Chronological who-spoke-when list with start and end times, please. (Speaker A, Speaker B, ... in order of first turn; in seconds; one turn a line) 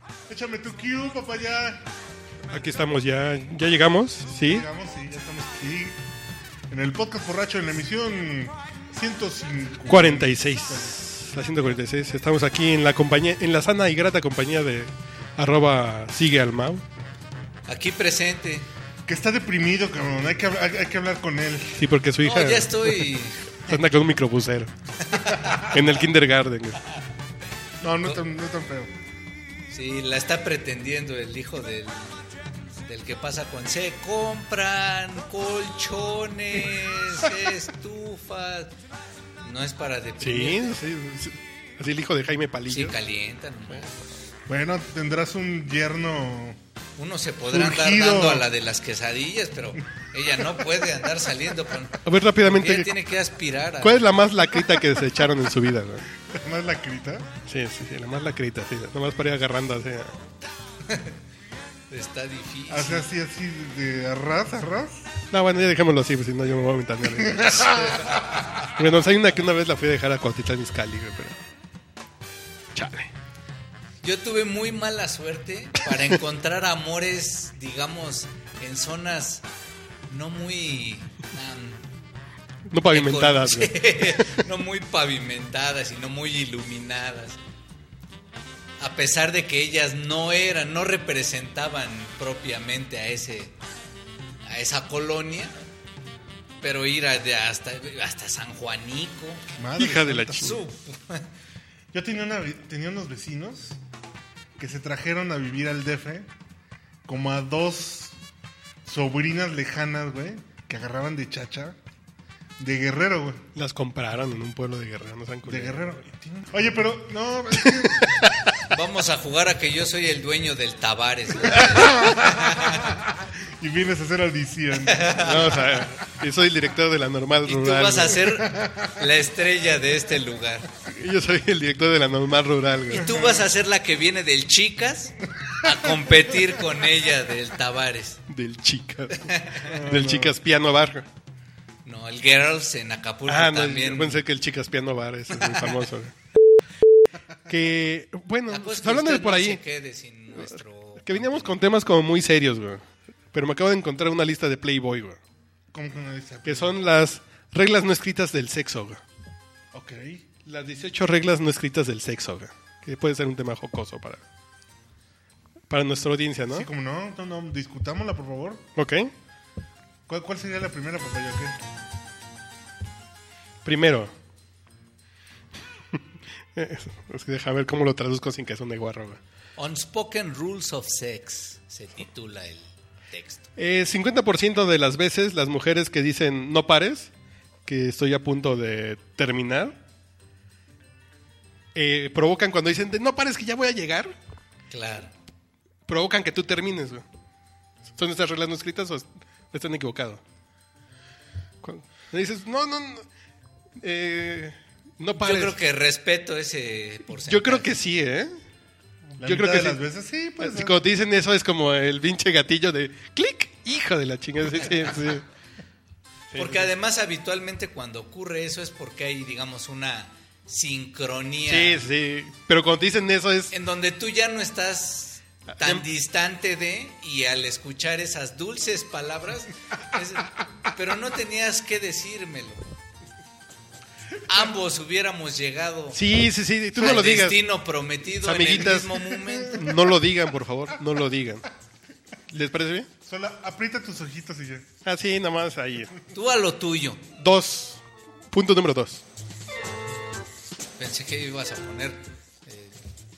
Speaker A: 0.3-1.9
Speaker B: 2.5-4.7
Speaker A: 4.4-6.0
Speaker A: 6.7-10.9
Speaker B: 9.9-16.8
Speaker C: 17.7-18.7
Speaker A: 19.1-21.9
Speaker B: 21.8-23.1
Speaker C: 22.2-23.8
Speaker B: 23.7-24.7
Speaker C: 25.0-25.8
Speaker B: 25.6-26.8
Speaker A: 27.8-28.9
Speaker C: 29.7-32.3
Speaker C: 32.9-38.8
Speaker C: 39.4-40.8
Speaker B: 40.2-43.0
Speaker C: 42.7-44.0
Speaker A: 44.5-46.6
Speaker C: 47.0-54.1
Speaker A: 47.5-48.5
Speaker B: 52.0-52.9
Speaker B: 53.8-56.1
Speaker A: 56.3-57.3
Speaker B: 57.5-60.2
Speaker C: 60.9-61.1
Speaker C: 61.9-63.0
Speaker A: 62.7-65.0
Speaker B: 65.3-67.8
Speaker A: 67.3-68.2
Speaker C: 67.6-68.6
Speaker B: 68.6-71.4
Speaker B: 72.8-73.1
Speaker C: 74.0-79.5
Speaker C: 80.1-81.8
Speaker B: 82.7-84.3
Speaker C: 82.9-87.4
Speaker C: 88.8-93.6
Speaker C: 94.5-95.5
Speaker C: 96.6-99.4
Speaker A: 99.6-100.6
Speaker B: 99.8-100.6
Speaker C: 100.4-101.3
Speaker A: 101.9-103.8
Speaker A: 104.6-106.3
Speaker A: 107.1-108.2
Speaker A: 108.8-111.8
Speaker A: 112.6-113.5
Speaker B: 113.5-115.9
Speaker A: 115.5-118.2
Speaker B: 117.6-118.5
Speaker C: 118.6-122.9
Speaker A: 121.6-125.8
Speaker C: 124.9-125.7
Speaker B: 125.2-128.3
Speaker C: 127.5-130.7
Speaker A: 128.4-129.0
Speaker B: 130.9-133.1
Speaker C: 132.9-138.2
Speaker A: 133.0-133.5
Speaker B: 138.3-141.1
Speaker C: 139.2-139.8
Speaker A: 139.6-140.4
Speaker C: 141.8-144.2
Speaker B: 143.3-146.1
Speaker B: 147.5-149.6
Speaker C: 148.5-151.6
Speaker B: 150.4-155.2
Speaker A: 155.7-156.8
Speaker B: 156.4-159.0
Speaker A: 159.7-160.2
Speaker B: 160.4-164.2
Speaker B: 165.7-166.7
Speaker A: 166.5-168.7
Speaker B: 168.8-169.1
Speaker A: 170.1-171.6
Speaker B: 173.7-174.1
Speaker B: 176.6-179.2
Speaker C: 179.6-183.5
Speaker B: 183.6-187.1
Speaker B: 187.7-189.8
Speaker B: 191.8-194.1
Speaker C: 194.7-195.1
Speaker B: 195.9-197.0
Speaker B: 198.0-200.2
Speaker B: 201.6-203.1
Speaker B: 203.8-205.6
Speaker C: 205.2-207.7
Speaker B: 207.2-208.4
Speaker B: 209.1-209.8
Speaker A: 209.2-210.8
Speaker B: 210.4-215.2
Speaker B: 216.3-216.7
Speaker C: 216.4-221.8
Speaker B: 221.5-223.5
Speaker C: 223.5-232.7
Speaker B: 225.5-225.8
Speaker C: 234.3-236.0
Speaker B: 235.9-237.5
Speaker C: 236.8-239.7
Speaker B: 238.2-241.5
Speaker B: 242.3-242.9
Speaker A: 243.1-244.7
Speaker B: 244.8-245.9
Speaker C: 246.1-247.1
Speaker B: 247.2-247.8
Speaker B: 248.3-249.0
Speaker C: 250.8-252.8